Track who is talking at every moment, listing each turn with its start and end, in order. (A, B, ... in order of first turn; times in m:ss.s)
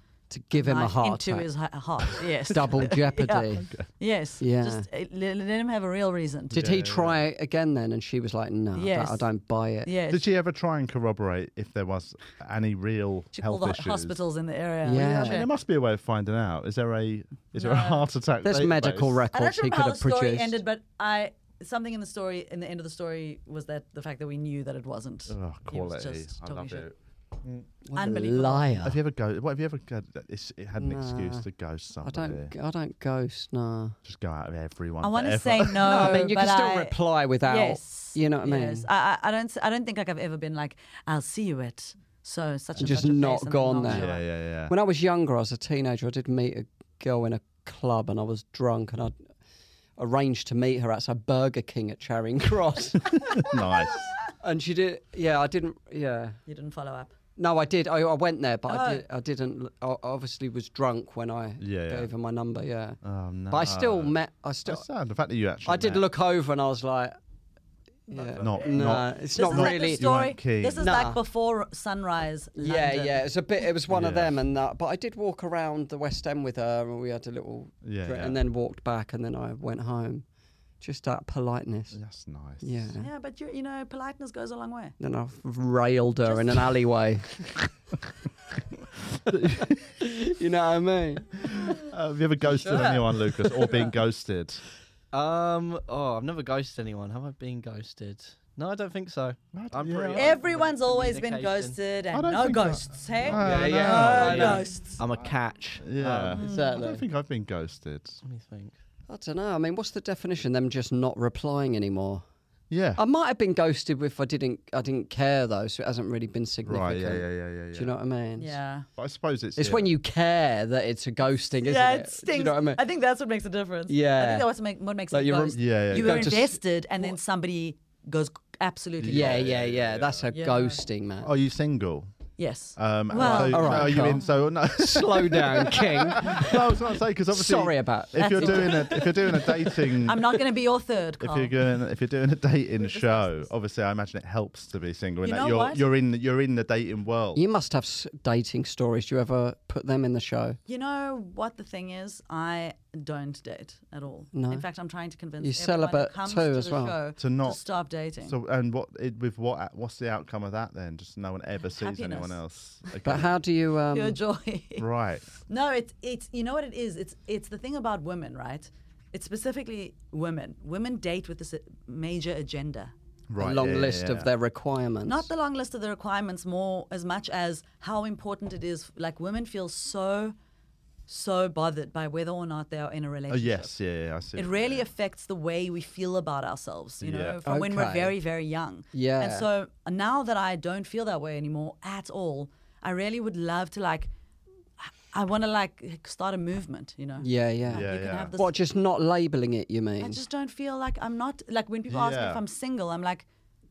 0:00.3-0:01.5 A
0:00.5-0:06.8 B
0:02.5-0:03.7 A
0:03.6-0:03.9 C
0:04.4-0:04.8 A
0:06.5-0:09.9 A
0:06.5-0:07.2 C
0:08.7-0:09.3 B
0:09.8-0:10.2 B
0:10.1-0:14.2 C
0:13.4-0:15.5 B
0:14.8-0:15.4 A
0:14.9-0:19.3 C
0:17.6-0:18.1 B
0:18.4-0:20.6 A
0:19.3-0:26.9 B
0:25.3-0:27.7 C
0:27.9-0:29.0 A
0:27.9-0:28.8 B
0:28.8-0:32.5 C
0:30.8-0:31.5 A
0:32.0-0:34.0 A
0:34.0-0:36.3 C
0:35.0-0:44.2 B
0:35.8-0:38.9 A
0:42.8-0:44.1 A
0:43.9-0:44.7 C
0:44.7-0:49.2 A
0:50.0-0:53.4 A
0:53.1-0:54.1 C
0:54.4-0:56.4 A
0:56.5-0:57.1 B
0:57.4-1:03.0 A
0:58.7-0:59.0 B
1:01.6-1:02.1 C
1:03.0-1:04.2 C
1:03.5-1:04.8 A
1:04.7-1:06.0 C
1:05.6-1:07.2 A
1:08.1-1:10.1 A
1:08.1-1:13.2 B
1:08.4-1:10.9 C
1:10.8-1:11.2 A
1:12.6-1:20.3 A
1:13.9-1:14.4 C
1:17.8-1:18.4 C
1:20.8-1:22.0 A
1:21.9-1:22.9 C
1:22.6-1:23.1 A
1:23.0-1:25.0 B
1:25.0-1:27.5 A
1:26.2-1:26.7 B
1:29.3-1:29.8 C
1:30.0-1:31.7 A
1:31.4-1:34.6 C
1:32.5-1:34.0 B
1:35.1-1:41.8 D
1:39.5-1:40.3 C
1:40.1-1:45.0 B
1:42.1-1:44.6 C
1:43.3-1:47.0 D
1:43.4-1:44.6 A
1:45.8-1:48.2 C
1:46.3-1:46.8 B
1:48.2-1:48.8 D
1:49.1-1:52.2 A
1:52.7-1:53.0 C
1:53.0-1:58.5 A
1:56.6-1:57.9 C
1:58.4-1:58.9 B
1:59.0-1:59.9 C
1:59.6-2:02.8 A
2:01.6-2:09.5 B
2:03.9-2:04.5 A
2:05.1-2:06.6 A
2:05.6-2:06.3 C
2:09.0-2:10.3 C
2:09.1-2:11.3 A
2:10.3-2:10.8 B
2:11.2-2:12.1 C
2:12.4-2:14.2 B
2:12.8-2:20.3 C
2:13.2-2:16.6 A
2:17.3-2:19.6 A
2:18.2-2:19.1 B
2:20.0-2:21.5 B
2:21.2-2:27.4 C
2:22.8-2:23.5 B
2:25.2-2:25.9 B
2:27.4-2:30.6 A
2:30.7-2:38.4 B
2:34.3-2:34.6 A
2:35.4-2:37.0 A
2:37.2-2:37.6 C
2:38.2-2:43.4 C
2:41.8-2:43.0 B
2:43.0-2:44.2 A
2:43.9-2:44.9 B
2:44.8-2:45.3 C
2:45.5-2:52.9 B
2:53.3-2:54.3 C
2:53.4-2:55.3 A
2:55.0-3:00.3 B
3:01.1-3:03.7 B
3:03.3-3:04.8 C
3:04.3-3:14.1 B
3:07.0-3:07.4 C
3:07.5-3:08.2 A
3:08.9-3:09.5 A
3:14.8-3:18.5 B
3:17.2-3:20.2 A
3:17.7-3:18.3 C
3:20.0-3:23.2 B
3:21.9-3:22.4 C